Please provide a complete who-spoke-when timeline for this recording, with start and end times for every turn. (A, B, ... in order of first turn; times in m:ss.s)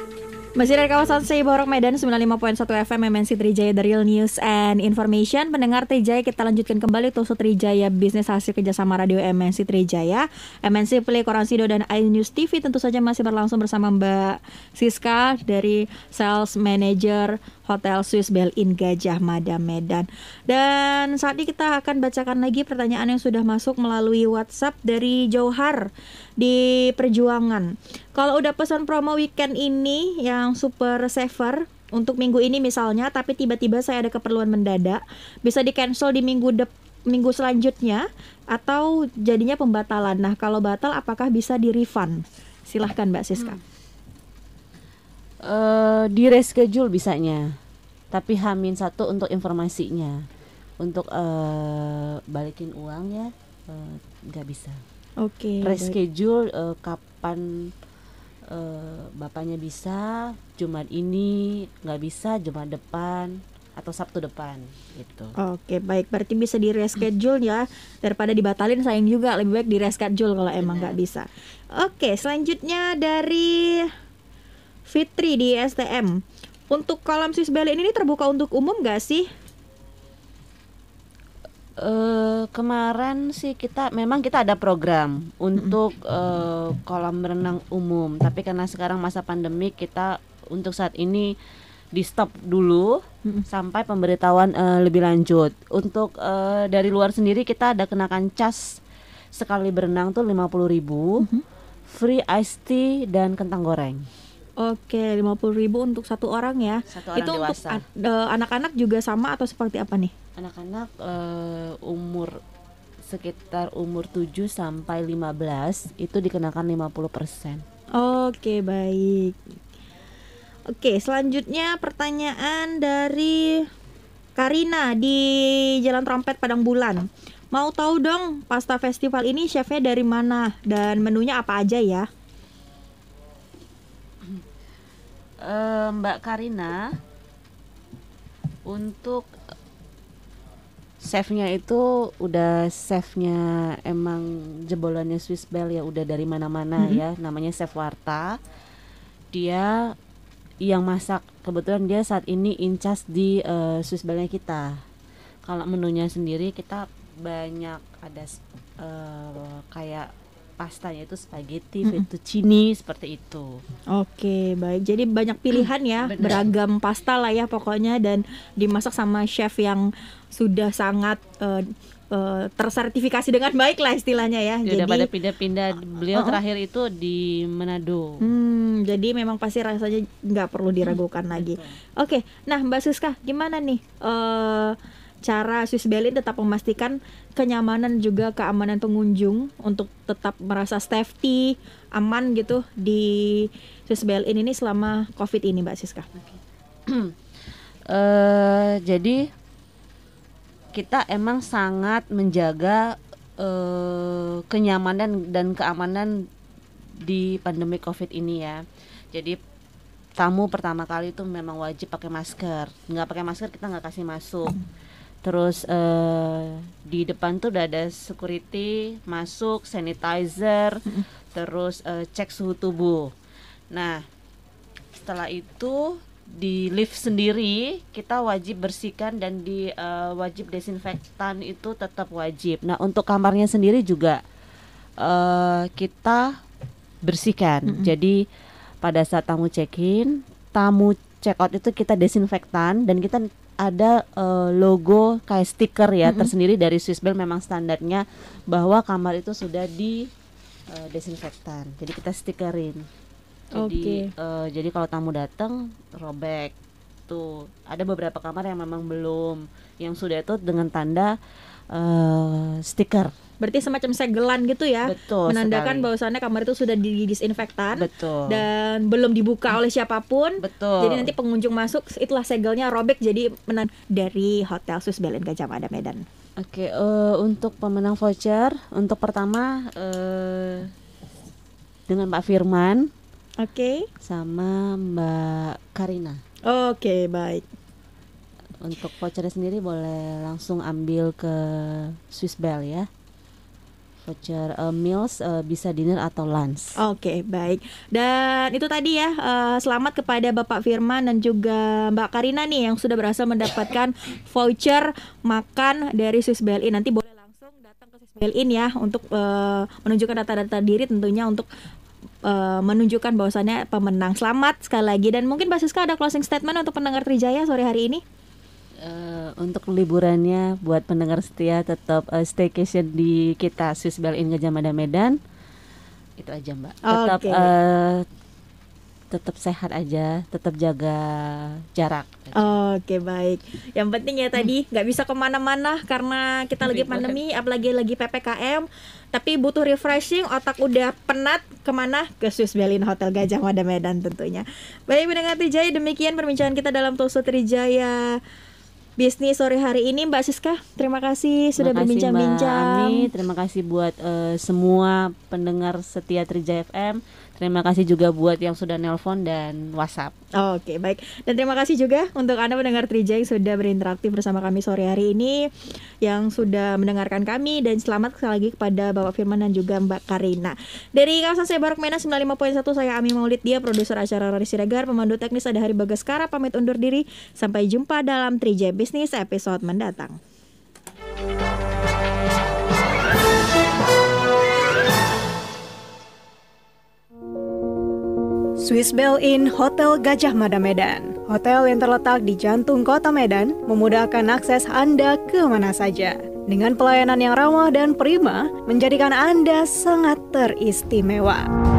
0:00.6-0:43.6 A
0:45.4-0:47.6 B
0:48.1-0:50.3 B
0:50.8-0:54.8 B
0:55.2-0:56.0 A
0:55.6-0:57.7 B
0:58.5-1:05.4 B
1:05.4-1:13.9 A
1:10.6-1:11.0 B
1:14.9-1:19.3 A
1:21.8-1:31.3 B
1:31.9-1:38.8 B
1:39.3-1:41.2 B
1:41.9-1:44.0 B
1:44.6-1:50.1 A
1:46.9-1:47.8 B
1:50.4-1:52.4 B
1:53.0-1:57.6 B
1:58.0-1:59.6 A
2:00.7-2:03.6 A
2:04.4-2:12.1 A
2:15.4-2:17.0 B
2:18.7-2:19.3 B
2:21.0-2:28.4 B
2:29.3-2:30.0 B
2:30.6-2:34.8 B
2:35.4-2:43.6 B
2:43.9-2:55.1 A
2:46.0-2:46.5 B
2:54.7-2:58.2 B
2:56.1-2:56.4 A
2:58.2-3:16.1 A
3:00.8-3:01.8 B
3:16.3-3:17.2 B
3:17.9-3:19.3 B
3:20.7-3:26.3 B
3:27.0-3:29.4 B
3:30.2-3:34.6 B
3:35.2-3:43.1 B
3:43.7-3:44.0 B
3:45.0-3:54.2 B
3:55.0-3:56.4 B
3:57.0-3:58.2 B
3:58.8-4:10.1 B
4:06.0-4:06.3 A
4:10.7-4:12.9 B
4:13.5-4:16.6 B
4:13.6-4:14.1 A
4:17.1-4:21.2 B
4:21.7-4:23.1 B
4:23.4-4:36.0 A
4:24.8-4:25.9 B
4:27.8-4:28.4 B
4:30.4-4:31.1 B
4:36.4-4:40.7 B
4:41.9-4:42.9 B
4:43.4-4:43.9 A
4:44.0-4:46.2 B
4:46.5-4:47.4 A
4:48.6-4:52.9 B
4:54.0-4:56.8 B
4:56.8-5:11.5 A
5:12.2-5:18.0 A
5:18.8-5:25.2 B
5:26.2-5:28.1 B
5:26.9-5:27.5 A
5:29.1-5:32.5 B
5:32.4-5:48.2 A
5:36.6-5:37.2 B
5:49.0-5:53.1 A
5:51.6-6:00.2 B
6:00.4-6:05.5 A
6:06.0-6:20.2 A
6:28.6-6:41.5 C